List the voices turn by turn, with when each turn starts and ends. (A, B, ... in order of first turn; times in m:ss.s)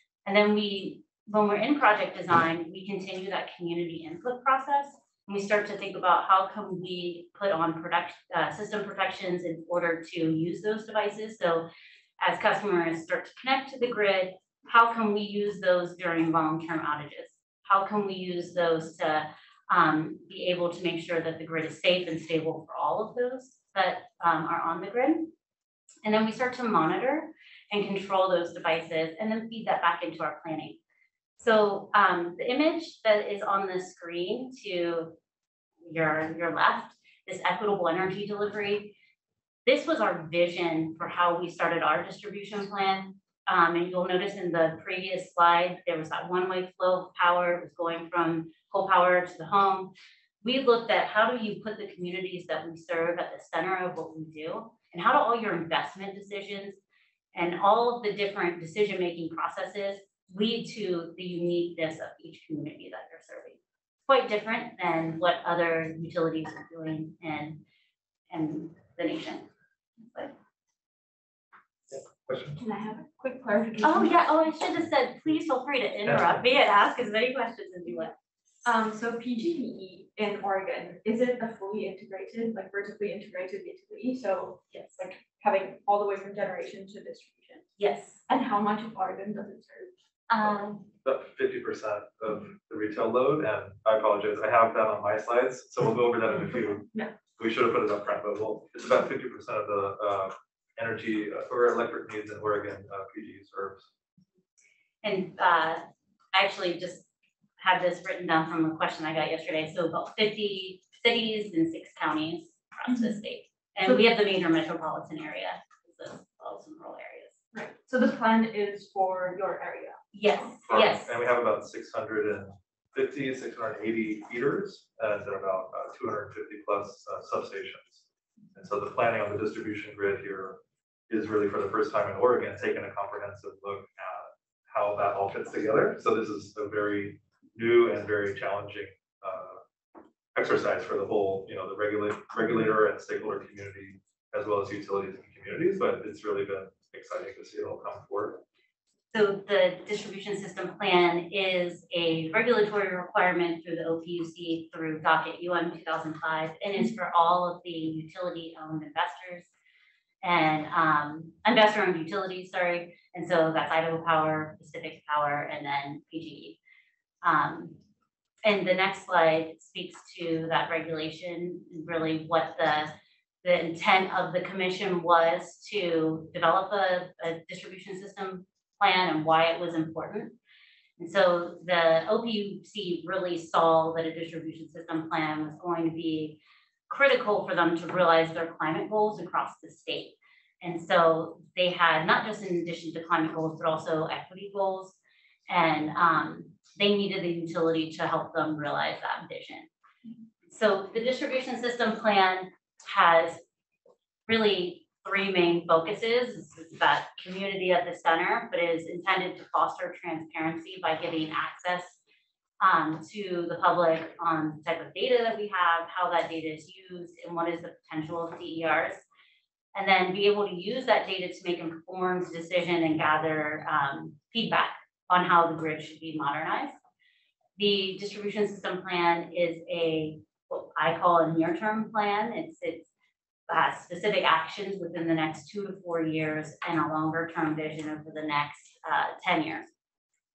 0:00.2-0:11.7 A
0:12.2-0:25.3 A
0:26.0-0:30.8 A
0:31.4-0:35.1 A
0:35.8-0:39.0 A
0:39.6-0:49.9 A
0:50.4-0:56.8 A
0:57.3-1:07.6 A
1:08.3-1:09.5 A
1:10.0-1:10.3 A
1:11.9-1:12.6 B
1:12.6-1:14.2 C
1:13.8-1:18.1 A
1:16.0-1:16.4 B
1:18.6-1:27.7 C
1:24.7-1:25.0 A
1:27.8-1:28.2 A
1:28.3-1:30.7 C
1:30.4-1:30.7 A
1:31.0-1:36.9 B
1:37.4-1:43.9 B
1:45.0-1:47.1 A
1:47.6-1:57.4 A
1:57.5-2:00.0 C
2:00.1-2:01.2 A
2:00.7-2:08.0 B
2:08.6-2:19.6 B
2:20.4-2:28.4 B
2:29.1-2:39.5 A
2:40.2-2:46.6 A
2:47.2-2:47.8 A
2:48.4-2:52.9 A
2:53.4-3:00.4 A
3:01.0-3:15.0 A
3:15.5-3:19.7 A
3:20.5-3:23.4 A
3:24.3-3:32.0 A
3:32.6-3:39.0 A
3:39.7-3:46.8 A
3:47.6-3:52.9 A
3:53.5-3:59.7 A